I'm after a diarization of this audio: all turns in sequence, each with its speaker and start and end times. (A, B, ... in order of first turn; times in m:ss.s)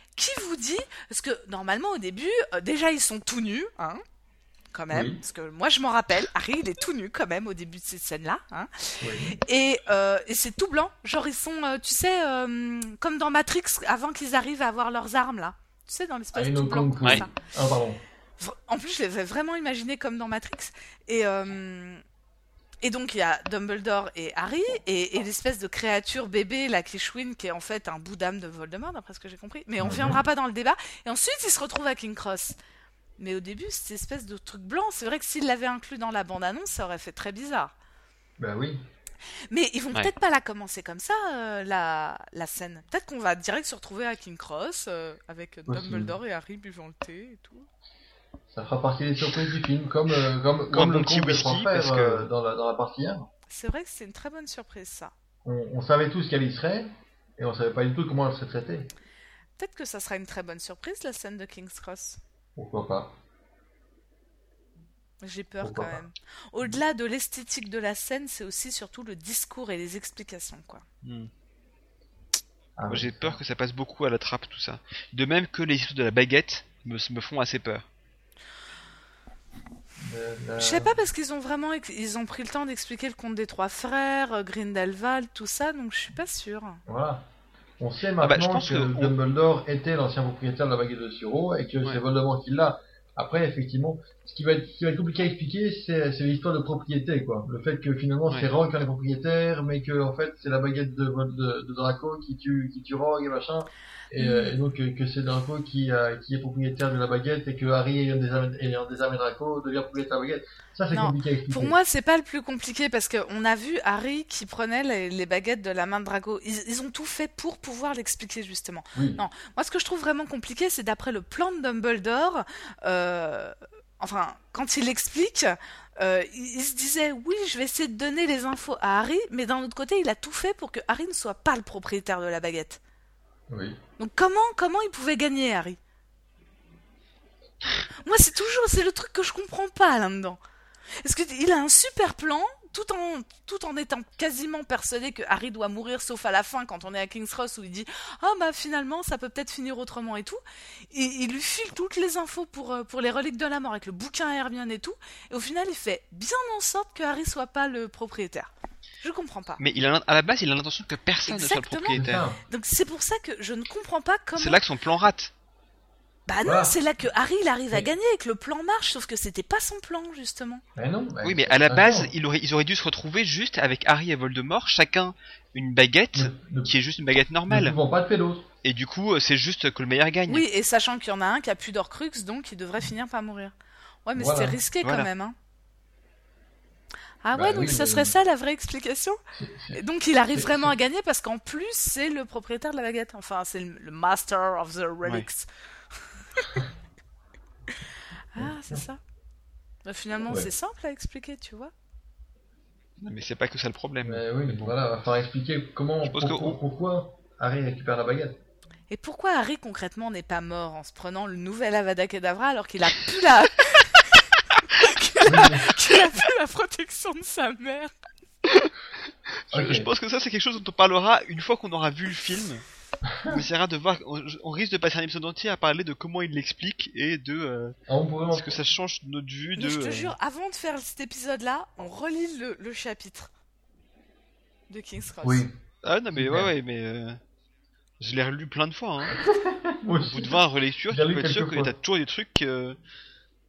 0:00.2-0:04.0 A
0:04.7-0:17.3 A
0:04.9-0:05.2 B
0:09.0-0:09.4 B
0:16.3-0:18.0 B
0:18.4-0:22.0 A
0:22.8-0:32.6 A
0:29.8-0:30.2 B
0:33.2-0:37.7 A
0:38.4-0:38.8 B
0:39.5-0:47.7 A
0:45.7-0:46.2 B
0:48.5-0:53.2 B
0:50.7-0:52.3 C
0:53.5-0:55.1 A
0:55.4-0:58.9 B
0:59.6-1:02.2 A
1:02.6-1:03.1 B
1:05.2-1:10.8 A
1:05.6-1:06.0 B
1:11.0-1:11.3 C
1:12.8-1:13.4 B
1:12.9-1:17.8 C
1:20.0-1:21.0 B
1:20.6-1:26.8 A
1:26.8-1:27.2 B
1:27.8-1:51.8 B
1:28.2-1:29.1 C
1:44.2-1:44.6 A
1:50.9-2:12.8 A
1:58.9-1:59.2 B
2:13.5-2:13.8 B
2:14.0-2:15.8 A
2:18.0-2:20.4 A
2:21.0-2:39.6 A
2:39.6-2:42.2 C
2:41.2-2:44.6 A
2:41.9-2:42.4 B
2:44.4-2:45.3 C
2:46.3-2:50.6 A
2:46.4-2:46.8 B
2:50.8-2:52.1 B
2:51.2-2:57.8 C
2:56.1-2:56.7 B
2:57.5-2:58.5 B
2:58.6-3:00.4 C
3:00.3-3:03.5 A
3:04.0-3:05.3 A
3:04.2-3:04.6 B
3:04.8-3:05.1 C
3:07.2-3:09.2 A
3:07.3-3:08.1 B
3:09.3-3:09.8 B
3:09.7-3:15.5 A
3:10.3-3:10.7 B
3:18.3-3:19.0 A
3:18.4-3:18.8 B
3:19.8-3:21.7 A
3:23.0-3:24.7 C
3:24.0-3:28.4 B
3:26.0-3:26.6 C
3:28.9-3:37.9 A
3:35.2-3:35.8 B
3:38.4-3:38.7 C
3:39.5-3:42.6 C
3:39.5-3:39.9 B
3:43.0-3:43.4 B
3:43.3-3:47.8 C
3:47.9-3:48.6 B
3:48.3-3:50.1 C
3:49.6-3:53.3 A
3:54.7-3:55.4 A
3:55.2-3:55.5 B
3:55.8-3:57.2 C
3:56.1-3:56.5 B
3:58.0-3:59.2 C
3:59.1-4:00.4 B
4:00.0-4:02.8 C
4:00.9-4:01.7 B